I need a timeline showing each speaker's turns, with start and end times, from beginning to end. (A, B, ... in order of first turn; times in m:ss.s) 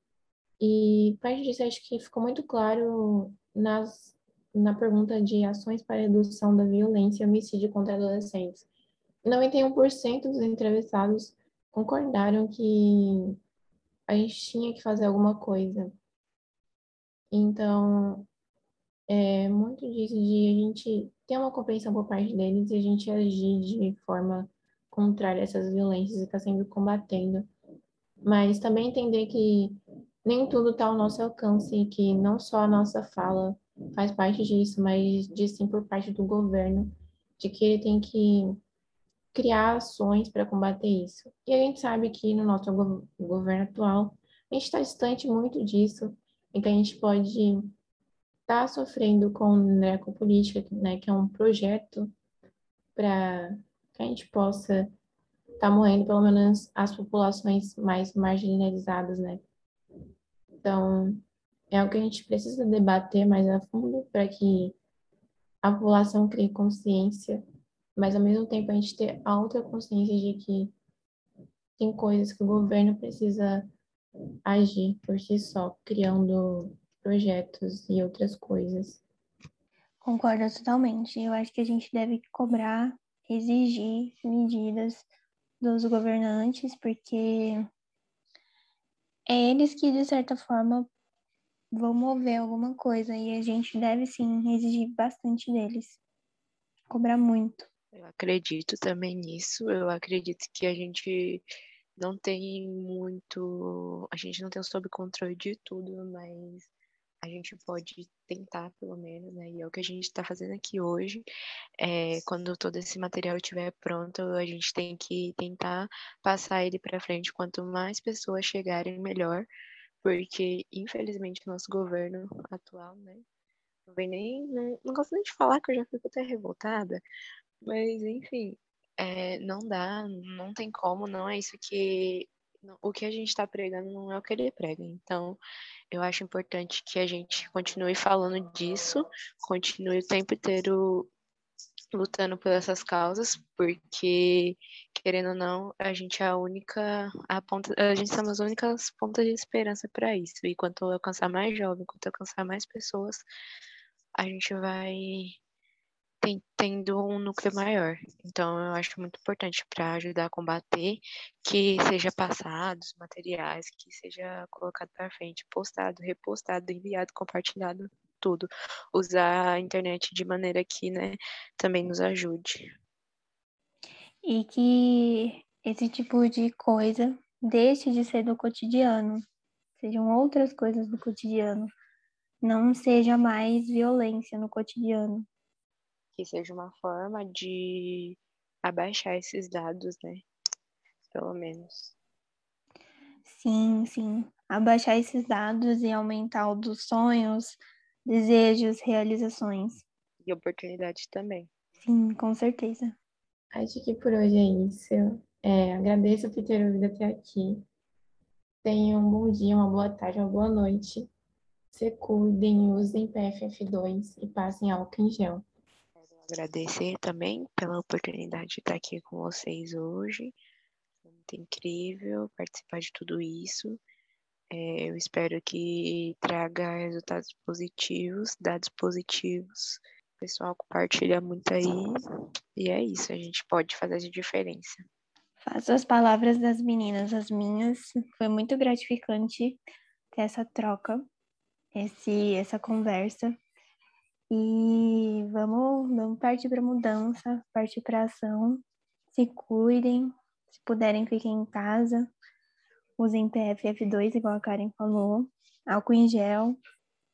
0:00.6-0:08.7 A
0:09.2-0:13.4 A
0:14.1-0:16.0 A
0:17.3-0:18.3 A
0:19.1-0:27.5 A
0:28.2-0:38.6 A
0:39.3-0:47.7 A
0:48.5-0:52.1 A
0:53.0-0:54.9 A
0:55.6-0:59.4 A
1:00.6-1:04.8 A
1:05.6-1:07.4 A
1:08.0-1:10.7 A
1:11.8-1:13.7 A
1:14.4-1:19.0 A
1:20.0-1:25.1 B
1:25.6-1:27.7 B
1:29.3-1:30.9 B
1:31.7-1:36.0 B
1:36.9-1:37.7 B
1:37.9-1:41.4 C
1:42.0-1:46.7 C
1:47.2-1:51.2 C
1:51.8-1:59.5 C
2:00.0-2:03.2 C
2:03.9-2:07.0 C
2:07.6-2:15.4 C
2:15.9-2:21.1 C
2:21.9-2:33.2 C
2:34.2-2:35.4 C
2:36.2-2:52.7 C
2:54.2-2:59.2 B
2:59.8-3:01.7 B
3:02.4-3:05.3 B
3:06.2-3:10.2 C
3:11.1-3:12.0 C
3:13.3-3:19.8 B
3:20.2-3:21.5 C
3:21.8-3:23.0 B
3:23.5-3:27.6 A
3:28.6-3:31.1 A
3:31.7-3:35.4 A
3:36.0-3:40.4 C
3:41.1-3:43.8 C
3:44.5-3:52.0 C
3:52.6-3:54.9 C
3:55.4-3:59.6 B
4:00.1-4:01.1 B
4:01.8-4:03.4 B
4:04.3-4:12.1 B
4:13.0-4:16.6 B